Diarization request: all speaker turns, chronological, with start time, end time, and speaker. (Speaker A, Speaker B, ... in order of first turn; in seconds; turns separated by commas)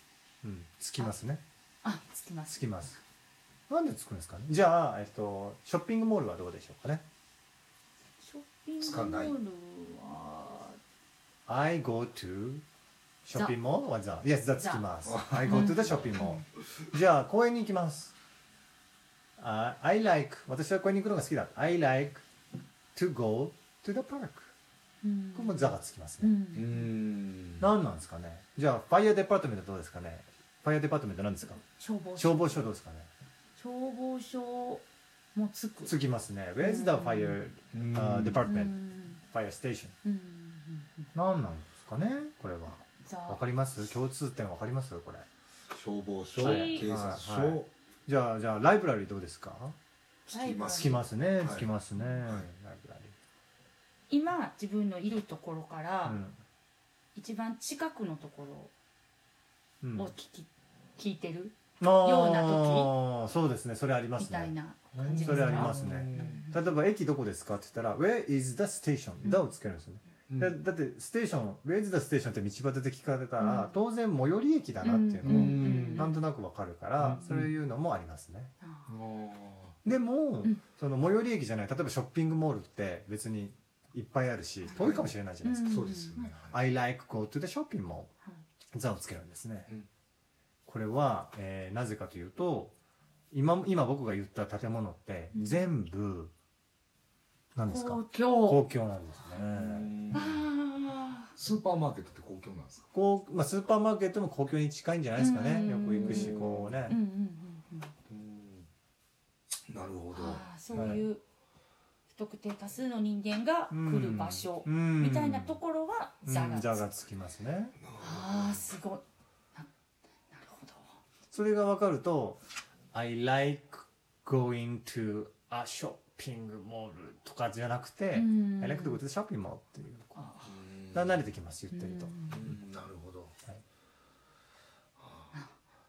Speaker A: 0.4-1.4, Speaker B: 1.8-3.0, Speaker A: 2.5-3.0, Speaker A: 3.7-7.0, Speaker B: 8.2-10.8, Speaker C: 8.8-9.4, Speaker A: 11.5-12.6, Speaker A: 13.2-18.1, Speaker B: 13.3-13.6, Speaker B: 14.6-14.8, Speaker C: 15.1-16.0, Speaker B: 15.5-16.4, Speaker A: 19.4-22.2, Speaker A: 22.9-24.5, Speaker B: 25.0-26.9, Speaker A: 25.3-26.4, Speaker C: 26.5-27.7, Speaker A: 27.6-31.6, Speaker B: 31.8-32.5, Speaker A: 32.2-33.1, Speaker B: 33.5-35.9, Speaker A: 35.9-38.7, Speaker B: 36.6-37.4, Speaker C: 37.7-38.5, Speaker B: 38.5-39.2, Speaker A: 39.3-40.0, Speaker B: 40.0-41.1, Speaker A: 41.1-45.2, Speaker B: 42.8-43.4, Speaker C: 45.7-47.7, Speaker B: 46.4-46.9, Speaker A: 46.4-49.8, Speaker C: 50.3-51.7, Speaker B: 50.3-51.0, Speaker A: 50.7-53.1, Speaker B: 54.1-56.2, Speaker A: 56.0-56.3, Speaker B: 57.1-58.7, Speaker A: 59.8-60.1, Speaker B: 59.9-62.9, Speaker A: 61.8-64.5, Speaker B: 64.2-66.5, Speaker C: 64.9-66.5, Speaker A: 65.2-78.5, Speaker C: 70.3-70.5, Speaker B: 73.4-73.8, Speaker B: 74.8-76.2, Speaker C: 75.2-76.1, Speaker C: 77.0-77.5, Speaker B: 78.6-78.9, Speaker C: 78.9-79.8, Speaker A: 79.8-85.8, Speaker B: 84.6-84.9, Speaker C: 84.7-85.1, Speaker B: 85.4-86.3, Speaker C: 85.6-86.6, Speaker A: 86.4-88.1, Speaker A: 88.7-89.7, Speaker A: 90.7-92.7, Speaker A: 93.3-96.3, Speaker B: 95.3-95.7, Speaker A: 97.5-100.0, Speaker B: 97.6-98.6, Speaker C: 99.4-100.4, Speaker B: 100.1-101.3, Speaker C: 101.3-102.8, Speaker A: 102.9-107.0, Speaker B: 105.2-107.9, Speaker C: 105.5-106.8, Speaker C: 108.1-108.6, Speaker C: 109.7-110.4, Speaker B: 110.1-111.2, Speaker A: 110.7-111.0, Speaker B: 112.1-116.9, Speaker A: 113.7-115.6, Speaker A: 116.2-117.8, Speaker C: 117.8-118.6, Speaker B: 118.0-119.0, Speaker B: 120.3-120.8, Speaker A: 121.3-122.4, Speaker A: 122.9-130.3, Speaker B: 128.1-129.0, Speaker B: 130.1-130.6, Speaker C: 130.4-131.2, Speaker A: 130.9-132.1, Speaker B: 131.7-132.5, Speaker C: 132.3-133.3, Speaker C: 135.0-135.3